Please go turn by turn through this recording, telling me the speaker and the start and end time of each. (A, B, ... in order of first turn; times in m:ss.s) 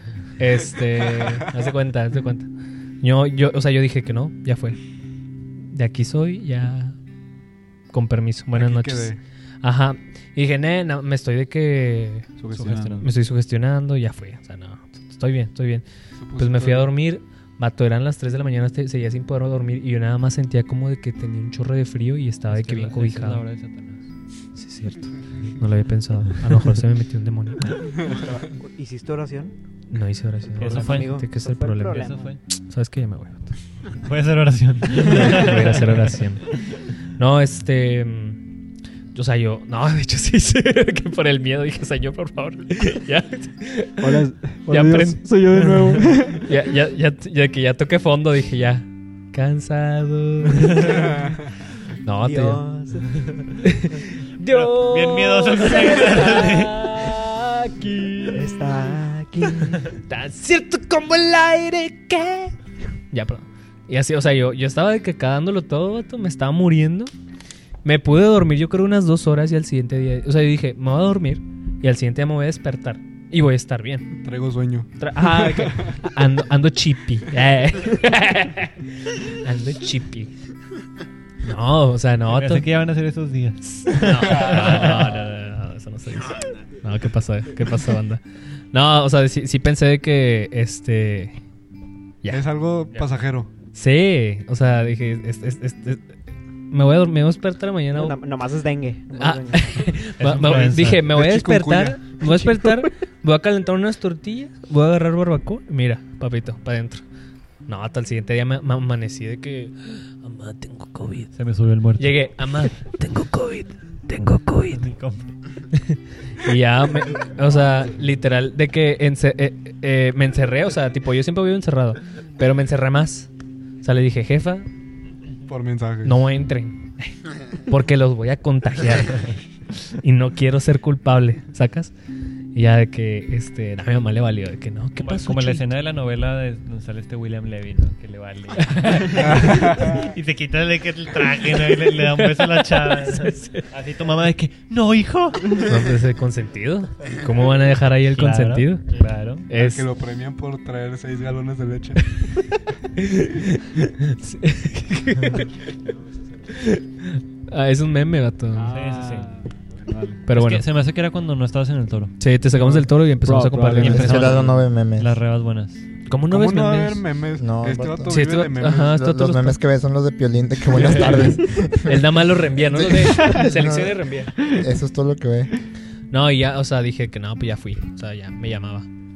0:00.4-0:02.5 A
0:03.0-0:04.8 A
0:05.7-0:07.0 A
0:07.9-0:12.3 A
0:08.5-0:09.2 B
0:12.4-0:13.1 C
0:12.5-0:13.1 D
0:13.0-0:23.4 A
0:16.2-0:16.9 B
0:22.5-0:24.1 D
0:24.6-0:27.8 A
0:28.0-0:29.6 E
0:29.9-0:33.5 A
0:30.6-0:32.4 E
0:30.6-0:31.3 D
0:31.9-0:32.4 D
0:34.0-0:36.2 D
0:35.0-0:36.5 A
0:37.2-0:38.4 A
0:39.1-0:51.2 A
0:44.0-0:46.5 C
0:52.0-0:52.6 A
0:52.2-0:53.2 E
0:53.6-0:58.7 A
0:54.5-0:56.9 D
0:58.3-0:59.9 E
1:00.0-1:02.5 A
1:03.1-1:07.1 A
1:07.8-1:14.1 A
1:14.2-1:15.9 B
1:15.0-1:20.3 A
1:21.4-1:22.7 A
1:22.3-1:25.1 D
1:23.6-1:28.2 A
1:28.7-1:31.4 A
1:32.2-1:33.0 A
1:32.3-1:33.5 B
1:33.7-1:36.1 A
1:36.7-1:38.2 A
1:37.9-1:39.8 E
1:39.2-1:47.0 A
1:40.2-1:41.0 D
1:41.0-1:42.4 B
1:47.7-1:51.3 A
1:51.4-1:52.2 D
1:52.0-1:54.8 A
1:54.7-1:55.3 D
1:55.7-2:03.3 A
2:03.8-2:04.7 A
2:05.5-2:06.2 B
2:06.0-2:07.2 A
2:07.7-2:09.3 A
2:09.9-2:11.9 A
2:12.5-2:15.7 A
2:15.0-2:25.6 D
2:18.6-2:19.4 A
2:19.2-2:20.0 B
2:21.8-2:23.7 A
2:25.6-2:28.9 A
2:28.2-2:29.5 D
2:29.5-2:29.9 A
2:29.6-2:32.2 B
2:33.0-2:35.5 A
2:36.5-2:38.7 A
2:38.5-2:40.2 C
2:38.7-2:39.3 D
2:40.3-2:40.6 A
2:40.3-2:42.2 D
2:42.2-2:44.4 A
2:42.6-2:42.9 B
2:43.2-2:44.3 C
2:43.8-2:45.9 D
2:43.8-2:45.1 F
2:46.1-2:47.0 A
2:46.3-2:49.0 B
2:47.4-2:48.2 F
2:48.1-2:49.6 A
2:48.9-2:52.0 F
2:50.7-2:54.4 A
2:52.7-2:55.5 F
2:56.1-2:58.9 A